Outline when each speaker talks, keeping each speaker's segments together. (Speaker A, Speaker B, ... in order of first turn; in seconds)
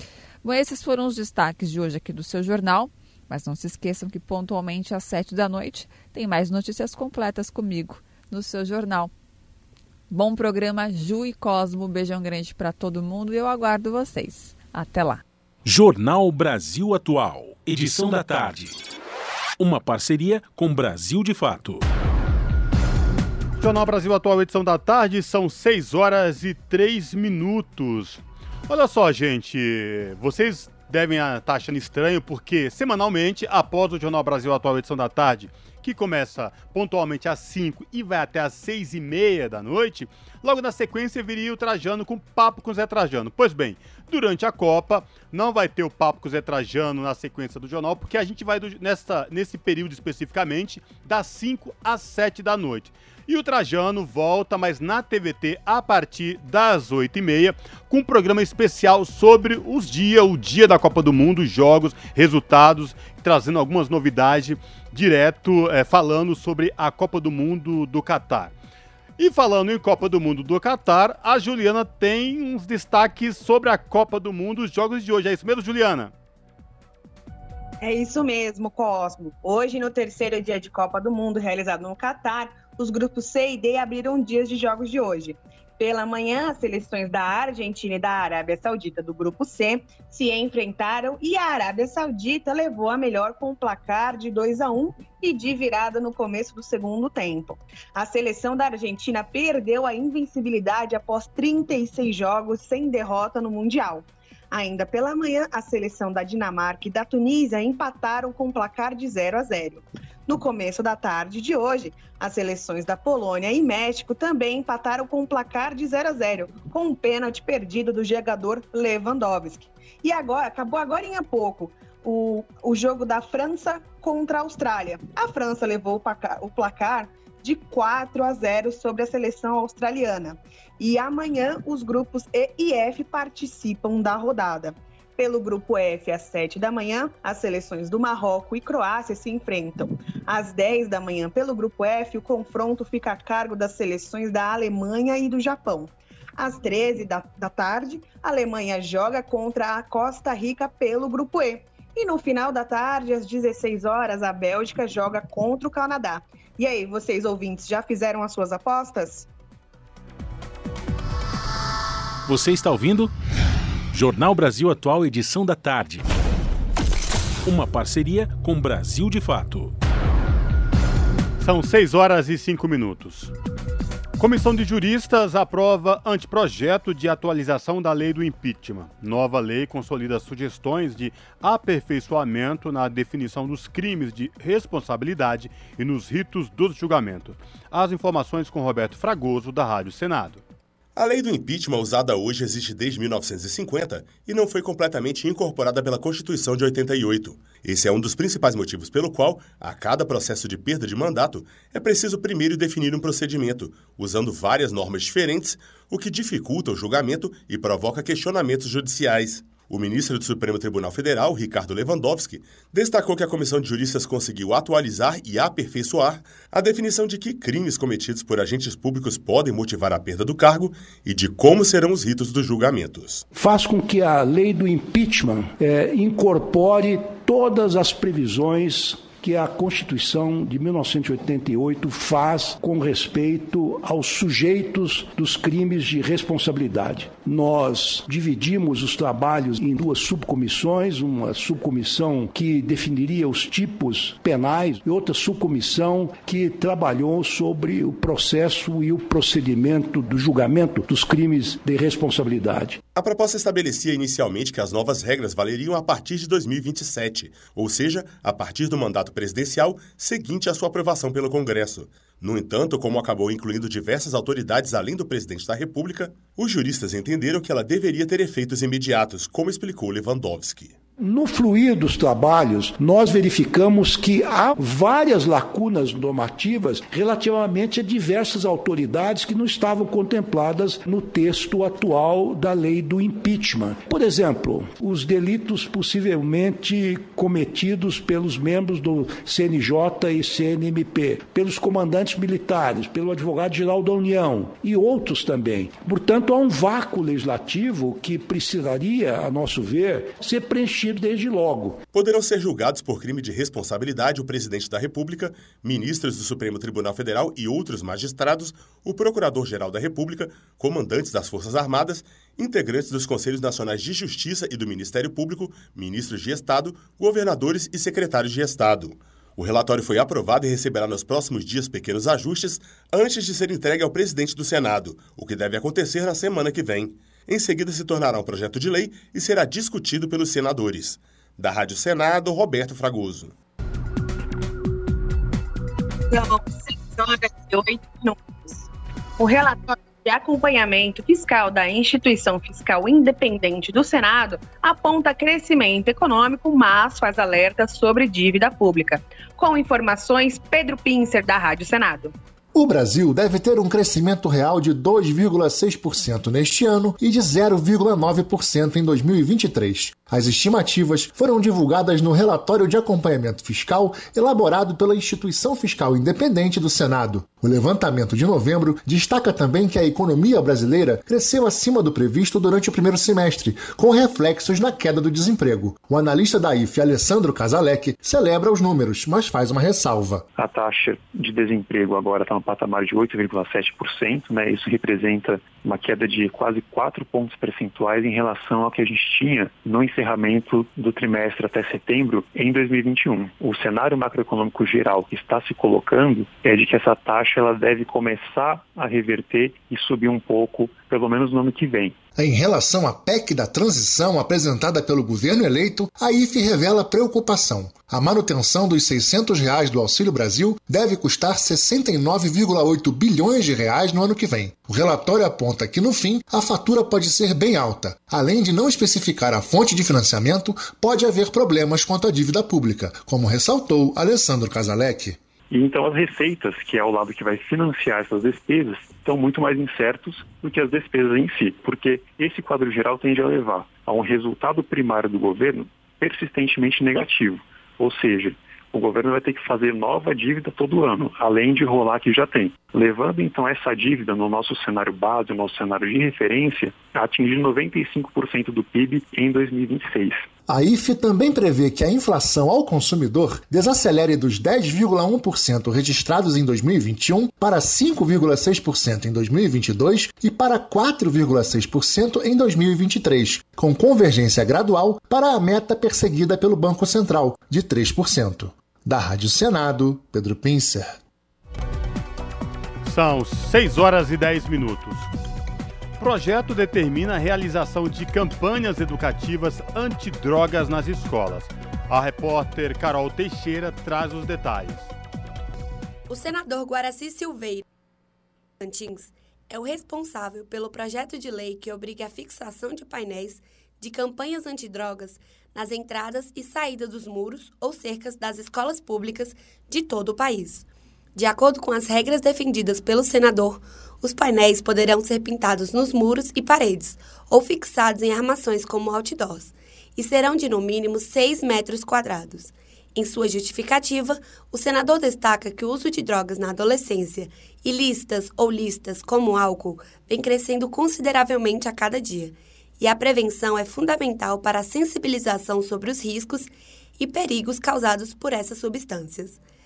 Speaker A: 0.4-9.1, 10.1-15.2
Speaker B: 15.6-18.8, 19.6-21.9, 162.2-163.1, 163.9-166.0, 167.4-169.7
Speaker C: 23.6-68.5, 69.2-76.1, 171.4-173.3, 174.2-190.4, 472.8-475.1, 476.0-484.9
Speaker D: 77.8-159.3, 336.1-352.1
Speaker E: 190.9-223.2, 252.9-270.8, 301.9-333.3
Speaker F: 223.3-252.8, 271.0-301.8
Speaker G: 352.5-380.2, 402.1-425.2, 450.5-471.0
Speaker H: 380.4-401.9, 425.5-450.2
Speaker I: 486.1-487.6, 488.6-529.4